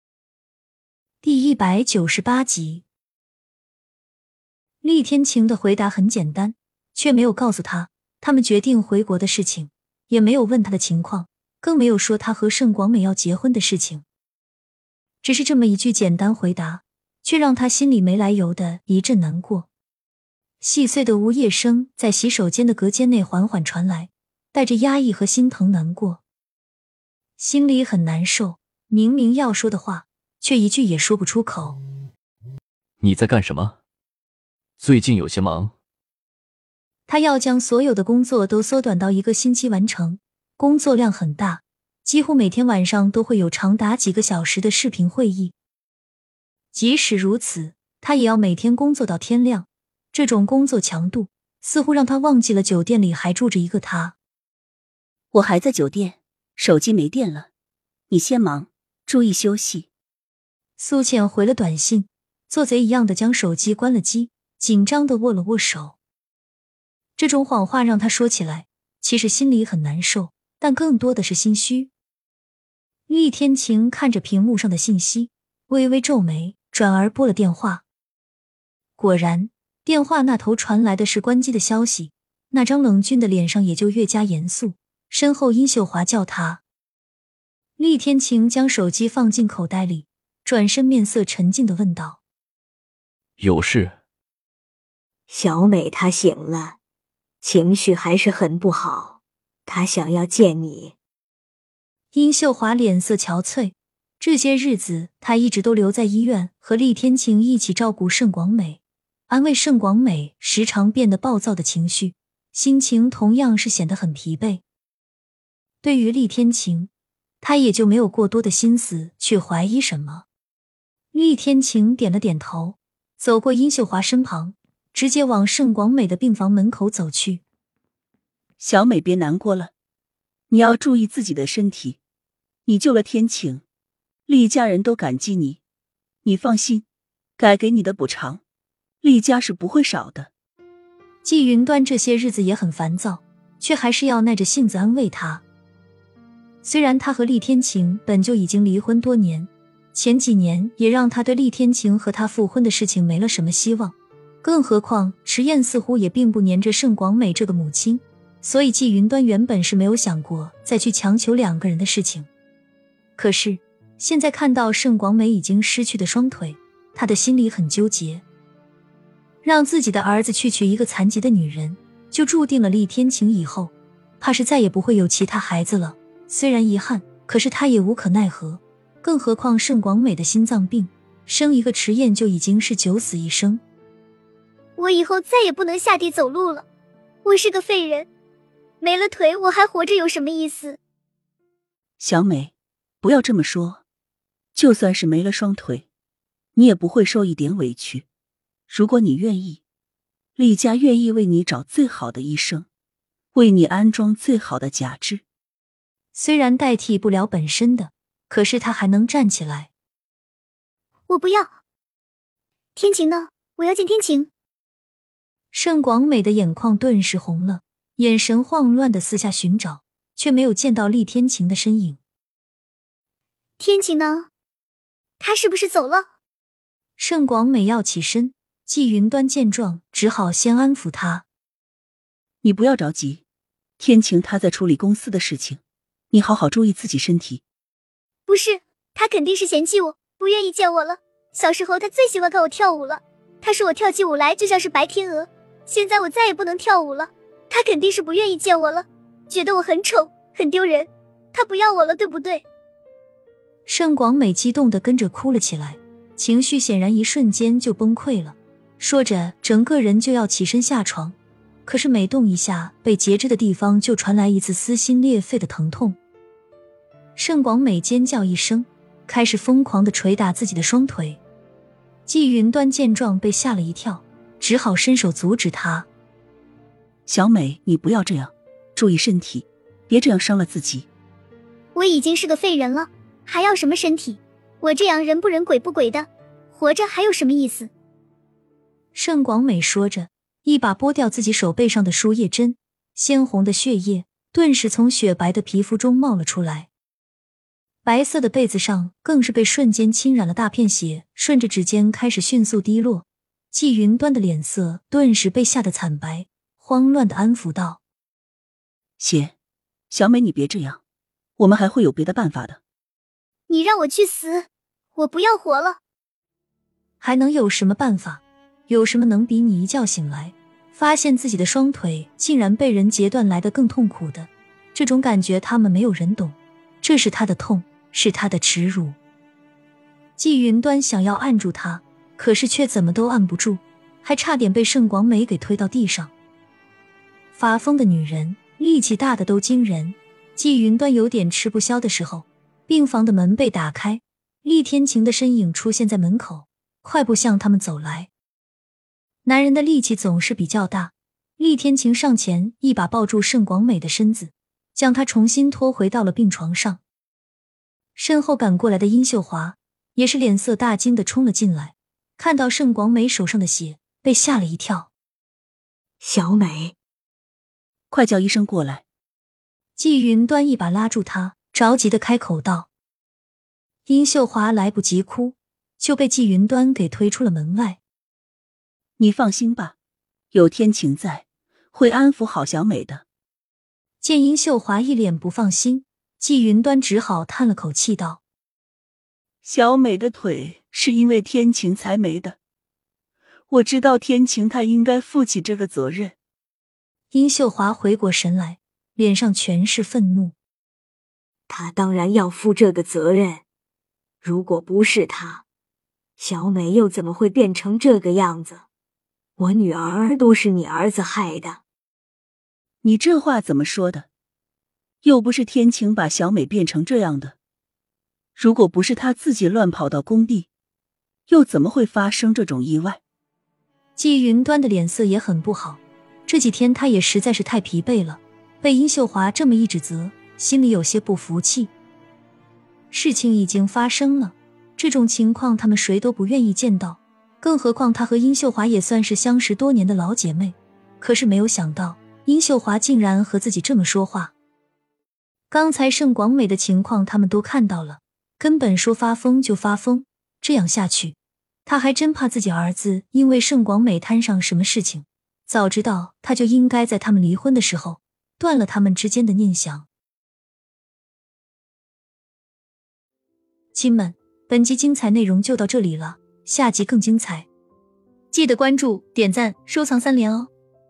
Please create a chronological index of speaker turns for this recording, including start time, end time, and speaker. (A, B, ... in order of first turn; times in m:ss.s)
0:01.2-0:02.8 A
0:04.8-0:14.0 A
0:15.2-0:19.7 A
0:20.6-0:26.2 A
0:27.4-0:31.8 A
0:33.0-0:33.8 B
0:34.8-0:35.7 B
0:37.1-0:45.5 A
0:46.7-0:54.2 A
0:55.3-0:57.5 C
0:58.1-0:59.9 C
1:00.8-1:06.0 A
1:07.2-1:11.9 A
1:13.1-1:17.8 A
1:19.0-1:26.6 A
1:27.8-1:32.2 A
1:33.4-1:34.0 B
1:35.3-1:36.8 D
1:37.4-1:40.9 D
1:42.1-1:54.6 A
1:55.8-1:56.9 A
1:57.4-2:00.2 A
2:01.1-2:07.4 A
2:08.6-2:09.7 C
2:10.5-2:12.0 C
2:12.6-2:13.6 C
2:14.2-2:15.6 C
2:16.2-2:16.8 C
2:17.4-2:18.4 C
2:19.0-2:20.3 C
2:21.2-2:25.4 A
2:26.6-2:42.3 A
2:43.2-2:48.2 A
2:49.4-3:03.6 A
3:04.8-3:06.6 E
3:07.2-3:08.1 E
3:08.8-3:10.8 E
3:12.0-3:13.8 C
3:14.5-3:15.8 C
3:16.5-3:18.0 C
3:18.7-3:19.6 C
3:20.4-3:22.6 C
3:23.3-3:25.2 C
3:26.1-3:29.7 A
3:31.1-3:31.5 E
3:32.8-3:34.3 E
3:35.5-3:42.0 A
3:43.6-3:44.3 E
3:45.2-3:46.1 E
3:47.0-3:51.2 A
3:52.4-3:53.2 C
3:53.8-3:55.6 C
3:56.1-3:57.4 C
3:58.3-4:12.4 E
4:13.6-4:26.0 A
4:27.2-4:31.2 A
4:32.1-4:35.9 A
4:37.1-4:40.9 C
4:41.7-4:47.7 E
4:48.9-4:56.7 A
4:57.8-5:07.8 A
5:09.0-5:09.3 C
5:09.9-5:10.8 C
5:11.4-5:12.6 C
5:13.5-5:15.8 E
5:17.0-5:29.0 A
5:30.2-5:36.1 A
5:37.3-5:48.1 A
5:49.2-5:56.8 A
5:58.0-6:04.9 A
6:06.0-6:06.7 D
6:07.9-6:08.8 C
6:09.8-6:12.7 A
6:13.8-6:17.8 A
6:19.0-6:19.7 C
6:20.3-6:23.0 C
6:24.0-6:28.2 A
6:29.4-6:32.4 C
6:33.5-6:36.1 C
6:37.1-6:40.4 A
6:41.5-6:43.4 D
6:44.2-6:45.4 D
6:46.2-6:48.6 D
6:49.4-6:51.6 D
6:52.8-6:54.0 C
6:55.0-6:57.3 C
6:58.4-7:00.5 C
7:01.3-7:03.0 C
7:04.0-7:11.7 A
7:12.9-7:24.3 A
7:25.5-7:39.9 A
7:43.7-7:47.5 A
7:48.3-7:50.5 A